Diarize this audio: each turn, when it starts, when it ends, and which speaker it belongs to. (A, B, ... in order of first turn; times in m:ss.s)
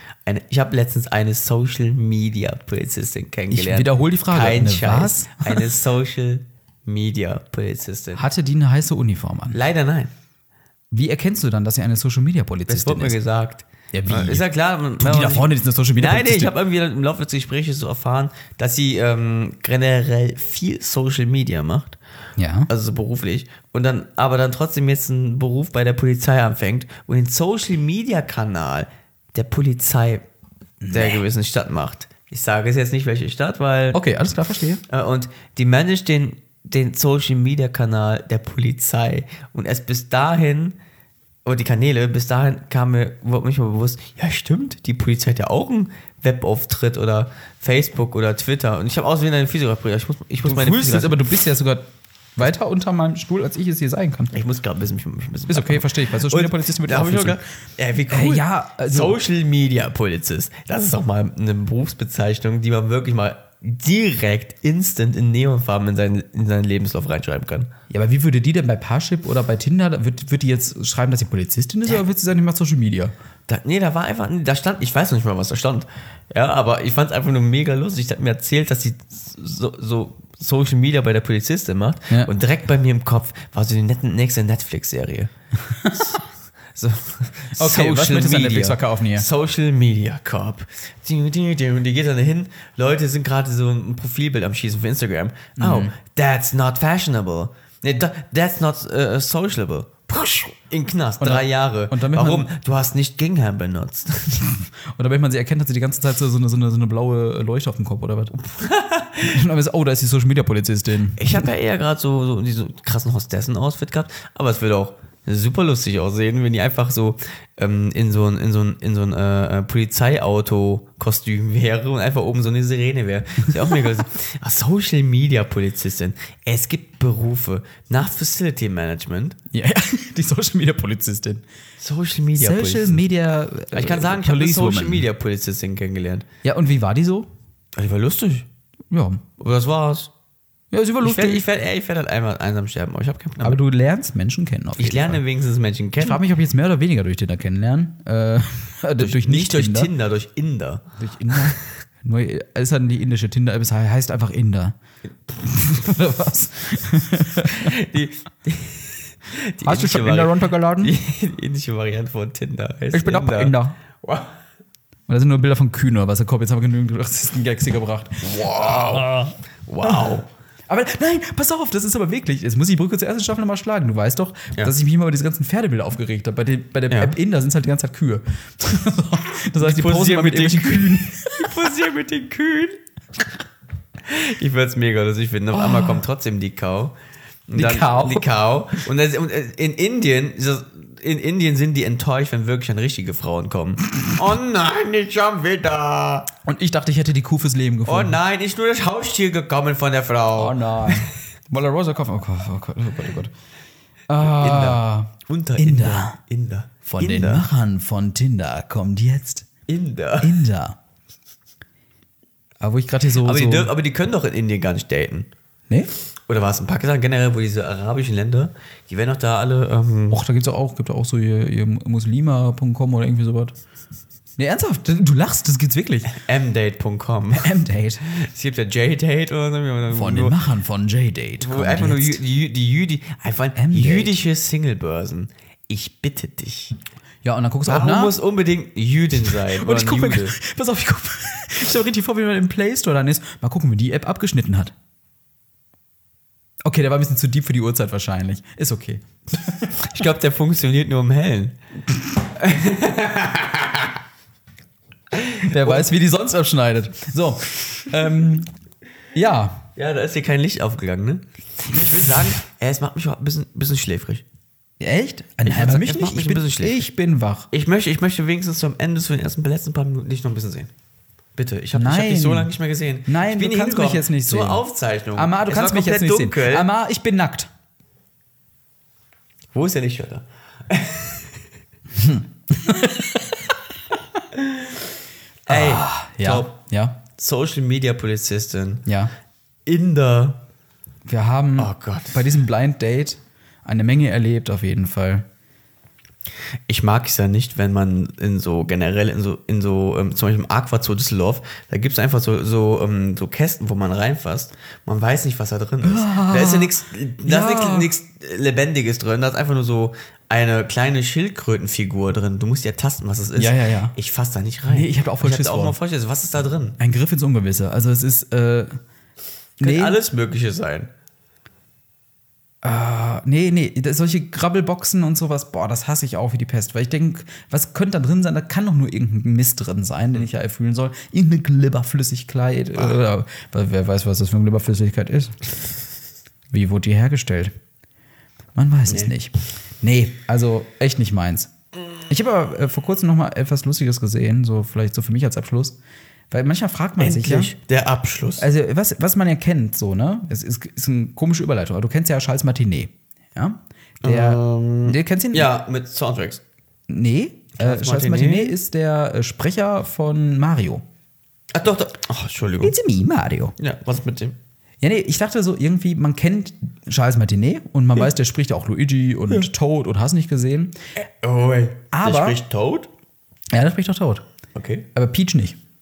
0:00.2-0:08.2 A
0:03.5-0:05.6 B
0:08.2-0:09.6 B
0:09.5-0:10.1 A
0:10.9-0:13.2 B
0:12.7-0:22.0 A
0:13.9-0:14.4 B
0:15.0-0:16.5 B
0:22.4-0:22.7 B
0:22.7-0:30.2 A
0:30.8-0:31.2 B
0:30.9-0:34.0 A
0:33.9-0:34.8 B
0:34.9-0:40.8 A
0:41.4-0:51.2 A
0:50.4-0:51.8 B
0:52.4-0:54.3 B
0:54.3-1:07.7 A
0:55.5-0:57.4 B
0:58.1-0:59.2 B
1:07.9-1:13.1 B
1:13.5-1:25.3 A
1:25.7-1:26.2 B
1:26.7-1:44.5 A
1:27.5-1:29.3 B
1:35.6-1:35.9 B
1:41.2-1:42.5 B
1:44.9-1:48.4 B
1:48.4-1:49.4 A
1:49.2-1:51.5 B
1:51.2-2:09.4 A
2:09.5-2:11.4 B
2:11.8-2:13.0 A
2:12.4-2:15.1 B
2:13.7-2:16.2 A
2:16.4-2:17.3 B
2:17.7-2:18.5 A
2:18.9-2:19.2 B
2:19.4-2:20.1 A
2:20.7-2:21.4 B
2:21.0-2:23.6 A
2:23.4-2:25.2 B
2:24.8-2:26.2 A
2:26.0-2:29.9 B
2:29.0-2:31.6 A
2:31.0-2:34.7 B
2:35.3-2:37.7 B
2:37.5-2:44.3 A
2:39.6-2:40.9 B
2:42.9-2:43.8 B
2:45.1-3:01.6 B
2:48.2-2:49.1 A
2:49.7-2:50.2 A
2:56.9-2:57.2 A
2:59.6-3:02.8 A
3:04.0-3:06.9 A
3:05.5-3:06.0 B
3:07.5-3:16.3 A
3:07.5-3:08.3 B
3:16.4-3:18.2 B
3:17.8-3:21.1 A
3:20.3-3:23.3 B
3:24.1-3:26.2 B
3:24.2-3:27.5 A
3:26.8-3:29.5 B
3:29.7-3:30.4 A
3:30.2-3:30.8 B
3:32.6-3:33.7 B
3:33.2-3:35.3 A
3:36.3-3:40.2 A
3:40.1-3:43.5 B
3:44.4-3:46.2 B
3:46.1-3:47.5 A
3:47.3-3:48.1 B
3:48.0-3:50.4 A
3:49.9-3:52.2 B
3:51.4-3:56.8 A
3:53.5-3:54.2 B
3:57.2-3:58.2 B
3:57.6-4:00.4 A
3:59.3-4:04.7 B
4:06.6-4:09.9 B
4:09.9-4:11.6 A
4:12.3-4:14.0 A
4:15.1-4:15.9 A
4:15.4-4:18.5 B
4:19.1-4:19.7 B
4:19.8-4:24.2 A
4:24.8-4:27.5 B
4:25.4-4:26.8 A
4:27.5-4:30.7 A
4:31.4-4:36.7 A
4:31.7-4:32.5 B
4:33.1-4:37.5 B
4:39.5-4:41.4 A
4:41.9-4:43.4 B
4:44.3-4:44.8 A
4:45.4-4:46.5 A
4:45.5-4:47.0 B
4:47.1-4:48.8 A
4:48.8-4:49.1 B
4:49.6-4:50.4 A
4:51.1-4:55.2 B
4:51.6-4:52.3 A
4:56.7-5:16.8 A
5:05.8-5:07.9 B
5:13.4-5:13.9 B
5:14.7-5:15.8 B
5:16.8-5:18.7 B
5:19.6-5:20.0 B
5:19.6-5:20.9 A
5:22.6-5:35.4 B
5:36.5-5:37.5 B
5:38.5-5:41.5 B
5:42.1-5:45.8 B
5:46.3-5:47.5 B
5:47.0-5:48.4 A
5:48.4-5:55.5 B
5:54.0-5:56.4 A
5:56.9-6:00.8 B
5:57.6-5:58.6 A
6:01.5-6:02.8 A
6:02.6-6:03.5 B
6:03.6-6:04.4 A
6:04.8-6:10.7 B
6:11.0-6:12.9 A
6:11.9-6:12.4 B
6:13.5-6:14.2 B
6:14.5-6:14.9 A
6:14.9-6:15.6 B